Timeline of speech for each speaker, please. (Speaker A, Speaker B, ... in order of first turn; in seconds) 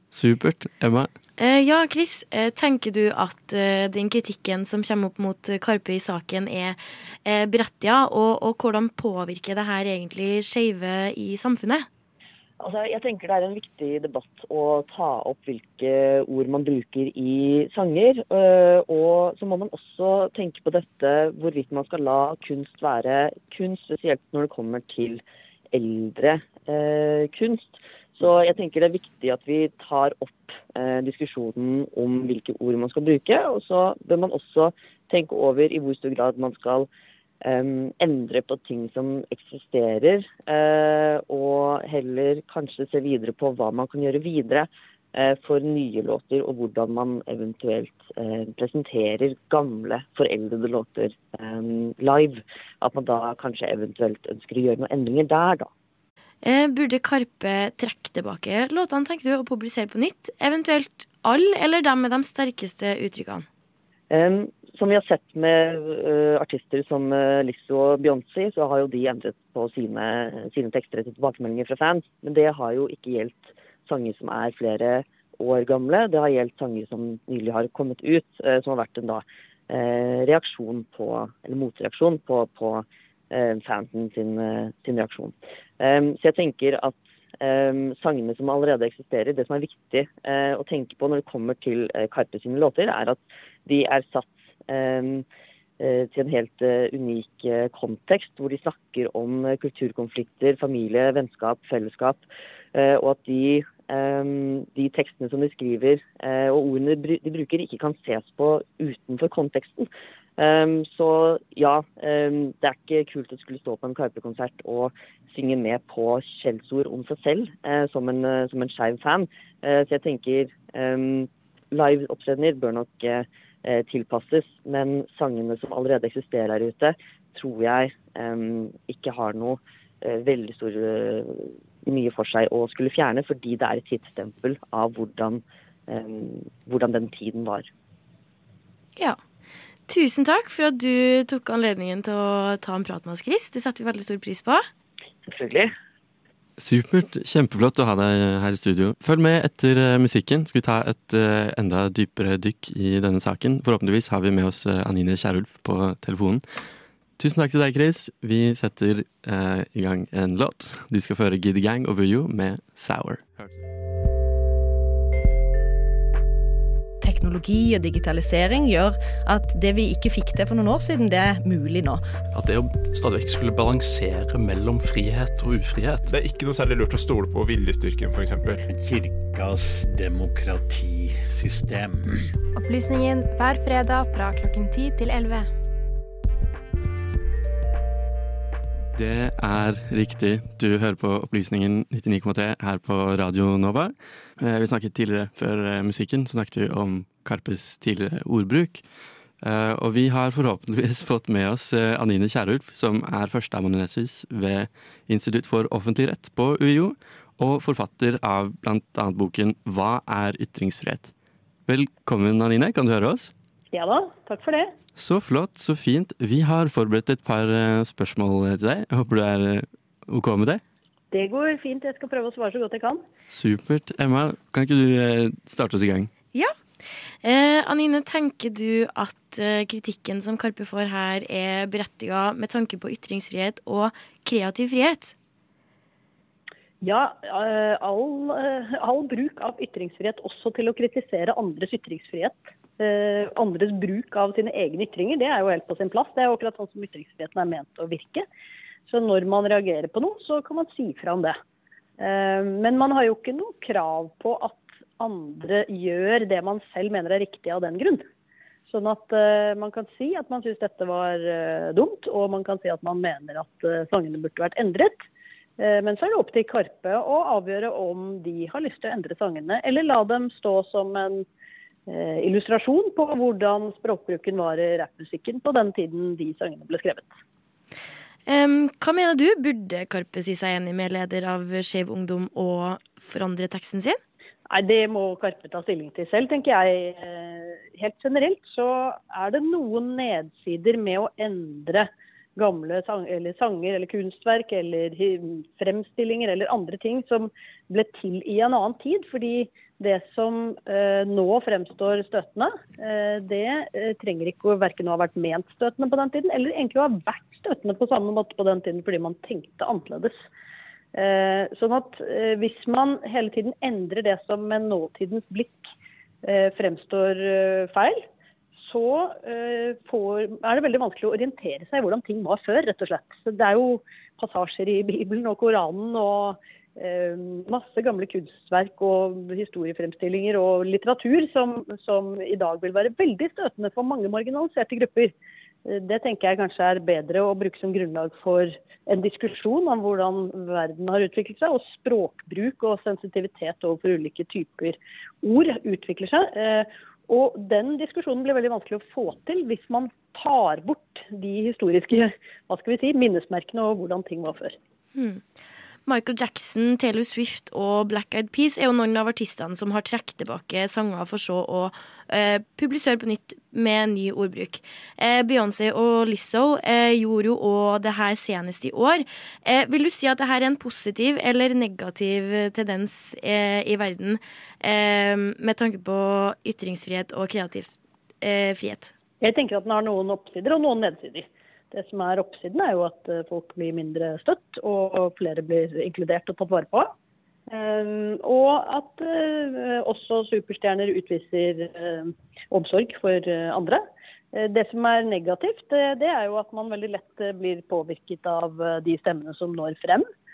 Speaker A: 0.1-1.1, 146.6-156.4, 157.2-163.6, 188.9-198.8, 199.4-211.1, 211.7-213.3, 214.9-220.6, 223.3-226.1
Speaker B: 1.4-11.9, 56.4-63.5, 139.9-144.7, 227.2-235.1, 278.3-284.0, 354.9-355.2, 355.9-378.9
Speaker C: 12.6-36.9, 37.4-55.7, 64.1-95.2, 95.8-137.7, 145.2-145.7
Speaker D: 167.0-172.0
Speaker E: 172.3-176.1
Speaker F: 176.1-182.3
Speaker G: 182.5-185.5
Speaker H: 213.7-214.7, 221.1-223.0, 236.8-248.2, 248.9-251.3, 252.0-258.0, 258.7-265.0, 265.6-271.2, 271.9-277.1, 284.5-310.1, 310.9-315.6, 316.2-318.0, 318.6-335.1, 335.6-354.6, 379.2-386.9, 387.5-400.1